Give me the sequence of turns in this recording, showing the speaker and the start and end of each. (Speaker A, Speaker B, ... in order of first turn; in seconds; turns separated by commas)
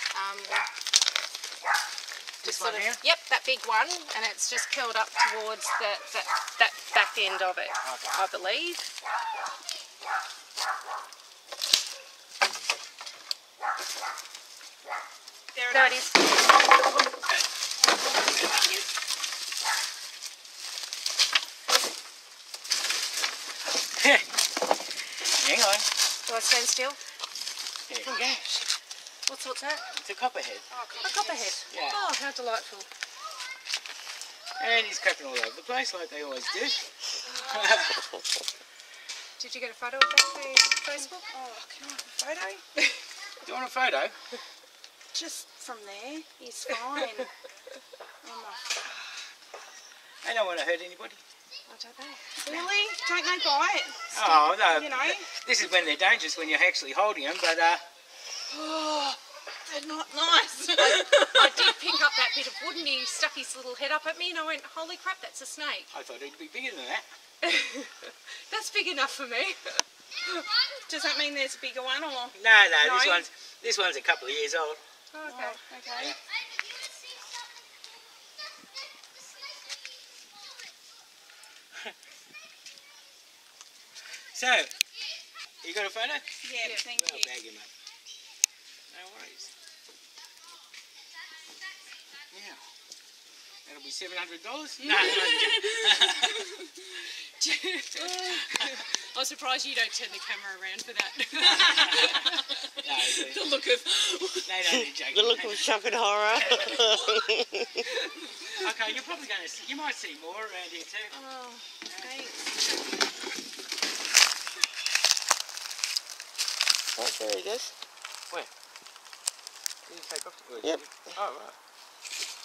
Speaker A: 0.1-0.7, Speaker B: 2.4-3.0, Speaker A: 2.4-8.9, Speaker B: 7.8-8.1, Speaker C: 15.5-16.1, Speaker A: 15.7-16.3, Speaker B: 23.9-24.2, Speaker B: 25.3-25.9, Speaker A: 26.2-27.0, Speaker B: 27.9-28.5, Speaker A: 28.1-28.6, Speaker A: 29.3-29.9, Speaker B: 29.9-30.6, Speaker C: 30.7-31.6, Speaker A: 31.0-32.9, Speaker B: 31.7-32.0, Speaker B: 34.6-38.0, Speaker C: 37.3-37.9, Speaker A: 39.4-41.2, Speaker C: 41.0-42.6, Speaker B: 43.4-44.1, Speaker C: 45.1-47.3, Speaker C: 48.2-48.8, Speaker B: 50.2-51.2, Speaker A: 51.7-52.7, Speaker C: 52.4-55.3, Speaker B: 54.1-57.8, Speaker C: 58.5-61.7, Speaker A: 60.8-65.9, Speaker B: 65.9-67.0, Speaker A: 67.4-69.8, Speaker C: 70.9-73.3, Speaker B: 72.3-74.8, Speaker A: 75.1-75.6, Speaker C: 75.2-76.2, Speaker B: 84.3-84.7, Speaker B: 85.6-86.2, Speaker C: 86.4-87.3, Speaker B: 86.9-87.7, Speaker B: 88.9-89.5, Speaker B: 92.3-92.6, Speaker B: 93.7-96.4, Speaker A: 94.9-96.5, Speaker A: 97.4-102.5, Speaker B: 98.0-98.7, Speaker B: 101.4-103.5, Speaker A: 103.1-104.4, Speaker B: 104.4-105.7, Speaker D: 104.6-107.7, Speaker A: 106.6-107.0, Speaker B: 108.6-111.1, Speaker C: 111.1-112.4, Speaker B: 111.8-112.1, Speaker D: 116.9-117.7, Speaker B: 119.8-121.5, Speaker D: 120.6-121.2